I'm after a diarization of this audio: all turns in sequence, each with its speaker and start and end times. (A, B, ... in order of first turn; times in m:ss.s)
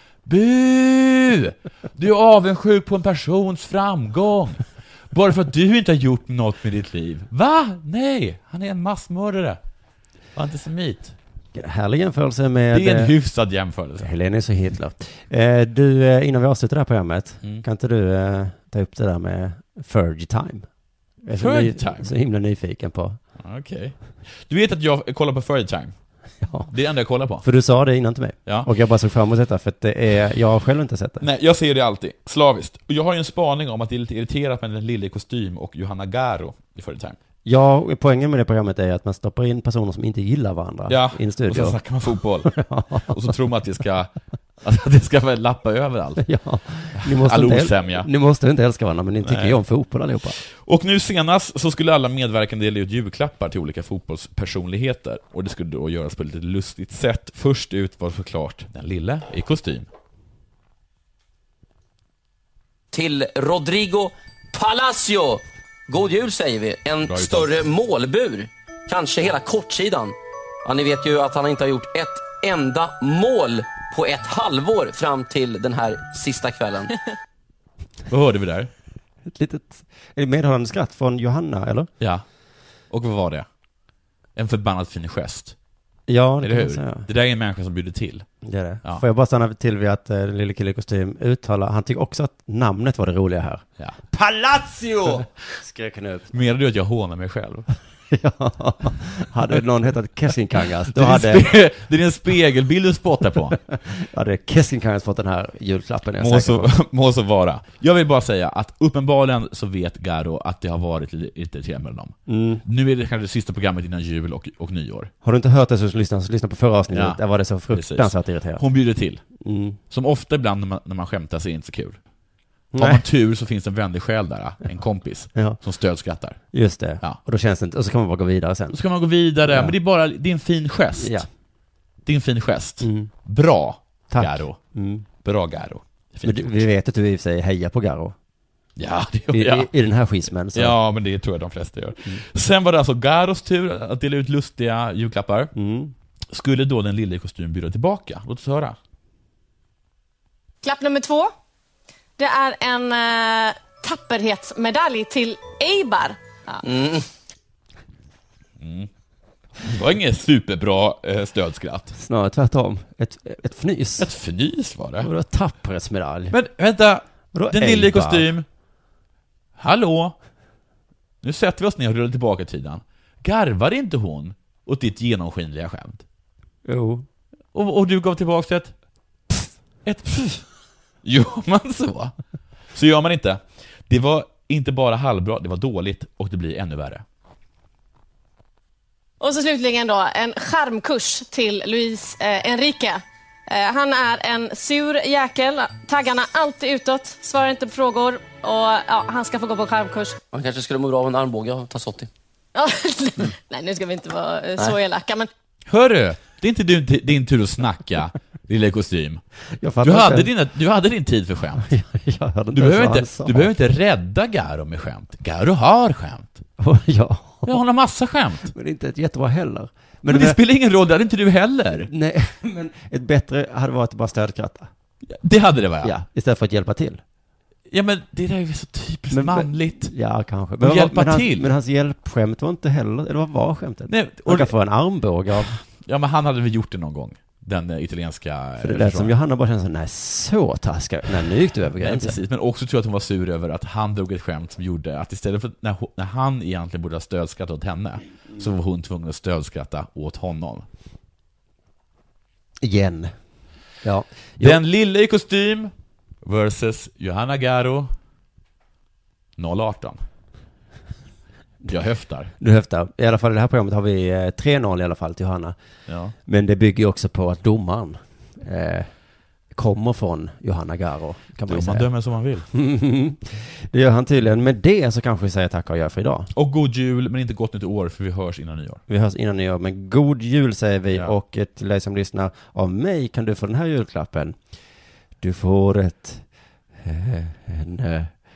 0:00.2-0:09.6 A
0:10.3-0:11.1 A
0:11.5-0:13.1 B
0:12.7-0:14.1 A
0:14.0-0:20.6 B
0:21.2-0:23.2 B
0:21.4-0:22.1 A
0:23.4-0:25.9 A
0:26.4-0:26.7 B
0:26.7-0:27.4 A
0:27.4-0:31.2 B
0:31.2-0:37.2 A
0:37.4-0:41.8 B
0:40.9-0:46.2 A
0:42.4-0:43.1 B
0:46.2-0:50.4 B
0:46.9-0:48.1 A
0:49.2-0:49.6 A
0:50.5-0:59.9 A
1:02.9-1:16.9 C
1:07.0-1:07.7 A
1:18.1-1:18.7 A
1:19.3-1:21.9 B
1:22.9-1:23.5 A
1:24.4-1:25.5 A
1:26.1-1:27.1 B
1:26.4-1:28.3 A
1:28.4-1:36.3 B
1:36.3-1:37.7 A
1:38.1-1:41.5 B
1:40.9-1:43.6 A
1:43.8-1:46.7 B
1:46.2-1:55.1 A
1:52.3-1:52.6 B
1:55.2-1:58.6 B
1:56.9-1:59.2 A
1:59.4-1:59.8 B
1:59.9-2:02.0 A
2:02.7-2:03.0 B
2:02.8-2:06.4 A
2:06.5-2:08.8 B
2:08.7-2:11.2 A
2:09.4-2:09.7 B
2:11.0-2:11.3 B
2:12.0-2:14.6 A
2:12.8-2:13.1 B
2:14.1-2:15.0 B
2:15.1-2:16.6 A
2:16.2-2:18.1 B
2:18.8-2:19.7 A
2:19.3-2:20.8 B
2:20.5-2:25.5 A
2:25.5-2:25.9 B
2:26.3-2:28.8 A
2:30.6-2:31.3 D
2:32.2-2:36.6 D
2:36.6-2:37.0 C
2:38.6-2:38.9 A
2:39.6-2:41.9 A
2:41.9-2:44.1 B
2:44.0-2:45.1 A
2:45.0-2:46.3 B
2:46.3-2:48.4 A
2:47.3-2:48.3 B
2:49.6-2:50.1 A
2:51.2-2:56.0 A
2:56.6-2:57.0 B
2:57.5-2:58.7 A
2:59.8-3:00.4 A
3:01.0-3:02.1 A
3:02.7-3:07.0 A
3:09.2-3:20.2 D
3:20.3-3:22.1 C
3:22.5-3:25.3 D
3:25.7-3:29.2 A
3:29.6-3:30.3 B
3:29.8-3:31.7 A
3:31.6-3:33.5 B
3:32.5-3:36.4 A
3:36.6-3:37.6 B
3:37.4-3:38.5 A
3:38.5-3:40.4 B
3:40.1-3:41.9 A
3:41.9-3:44.7 B
3:45.0-3:46.0 A
3:45.8-3:47.0 B
3:47.7-3:49.9 A
3:49.1-3:55.5 B
3:50.6-3:51.5 A
3:53.9-3:54.5 A
3:55.3-3:59.1 A
3:58.6-4:02.2 B
4:01.8-4:10.6 A
4:12.6-4:13.1 B
4:13.8-4:14.6 B
4:14.4-4:17.9 A
4:19.4-4:20.0 A
4:21.6-4:22.3 A
4:22.4-4:25.5 B
4:25.9-4:26.1 A
4:26.2-4:28.9 B
4:29.5-4:31.9 B
4:31.5-4:32.5 A
4:32.5-4:36.3 B
4:36.3-4:38.8 A
4:38.9-4:44.3 B
4:45.2-4:46.2 B
4:46.8-4:48.1 B